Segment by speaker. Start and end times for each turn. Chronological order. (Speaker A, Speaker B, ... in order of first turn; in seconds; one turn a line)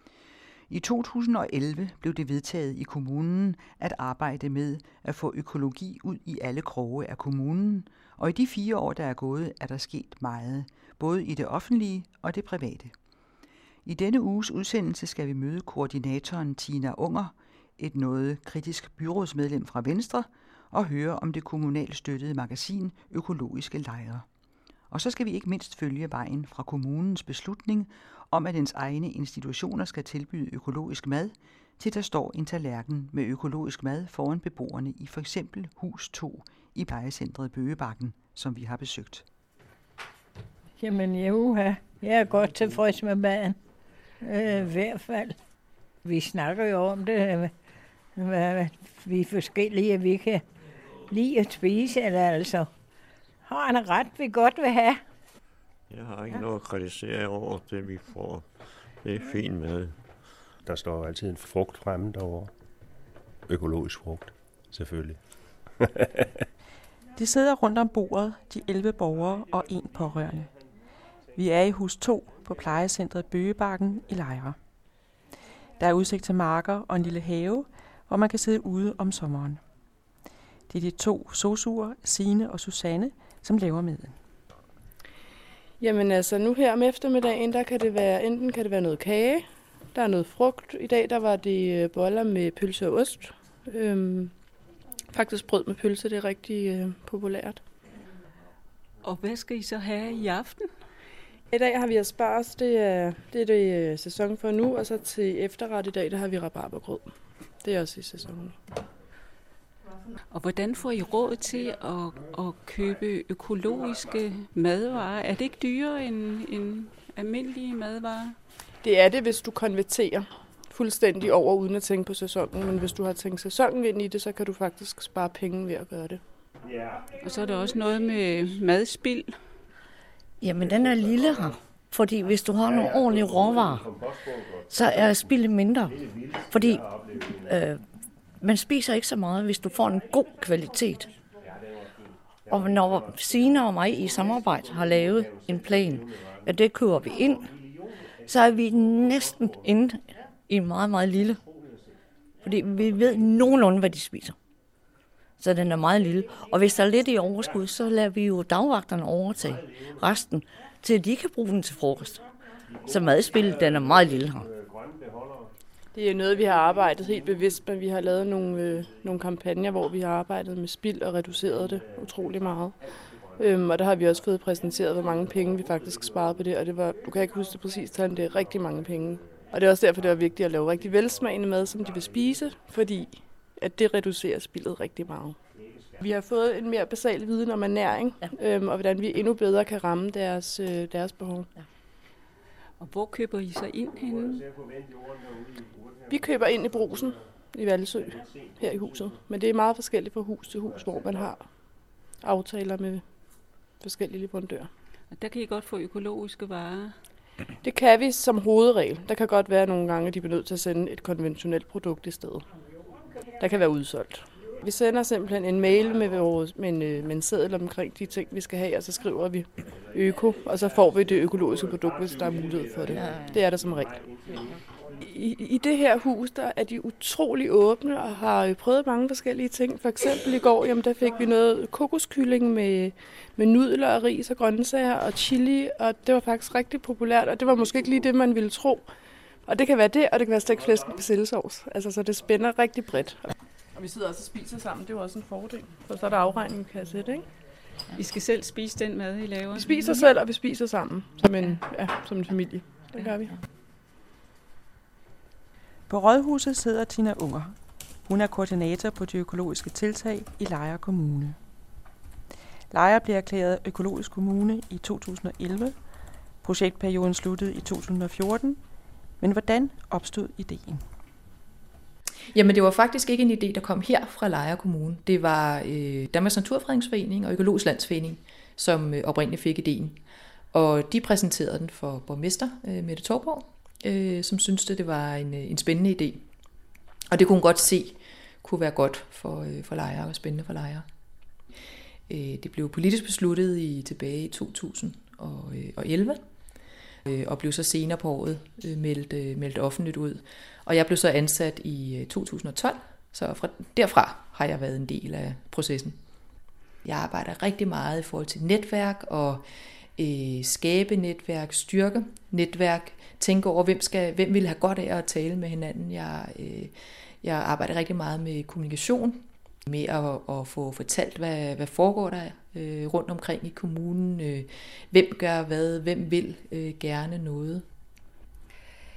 Speaker A: 0.7-12.9
Speaker A: 13.8-24.2
Speaker A: 24.9-39.2
Speaker B: 40.8-43.5
Speaker B: 44.2-45.4
Speaker B: 46.0-47.5
Speaker B: 48.1-50.4
Speaker B: 51.1-52.7
Speaker B: 53.4-55.0
Speaker C: 55.9-60.0
Speaker D: 60.6-62.5
Speaker D: 63.5-66.3
Speaker E: 67.2-70.5
Speaker E: 71.3-74.6
Speaker E: 75.8-79.6
Speaker E: 80.7-84.2
Speaker F: 85.8-94.3
Speaker F: 95.1-97.6
Speaker G: 99.0-100.7
Speaker F: 101.5-107.1
Speaker F: 107.6-108.6
Speaker G: 110.3-118.4
Speaker F: 118.8-126.2
Speaker G: 127.2-129.3
Speaker H: 130.4-133.9
Speaker H: 134.7-137.8
Speaker H: 138.4-141.1
Speaker H: 142.5-147.5
Speaker H: 148.2-151.4
Speaker H: 152.4-154.3
Speaker H: 155.4-162.2
Speaker H: 162.8-164.5
Speaker D: 164.7-165.1
Speaker F: 165.9-172.8
Speaker F: 173.4-185.4
Speaker F: 186.0-191.5
Speaker G: 192.8-194.5
Speaker F: 196.1-201.5
Speaker F: 202.2-203.1
Speaker F: 203.8-204.7
Speaker G: 205.1-206.9
Speaker F: 207.6-212.4
Speaker F: 213.4-224.0
Speaker F: 225.0-238.9
Speaker F: 239.4-247.3
Speaker G: 247.9-250.1
Speaker F: 249.5-253.4
Speaker E: 255.9-261.4
Speaker E: 262.7-265.8
Speaker E: 266.4-268.6
Speaker E: 269.2-270.8
Speaker I: 272.3-280.0
Speaker I: 280.5-286.2
Speaker I: 287.1-290.8
Speaker I: 292.1-296.2
Speaker I: 297.1-306.0
Speaker I: 306.8-309.4
Speaker I: 309.9-327.6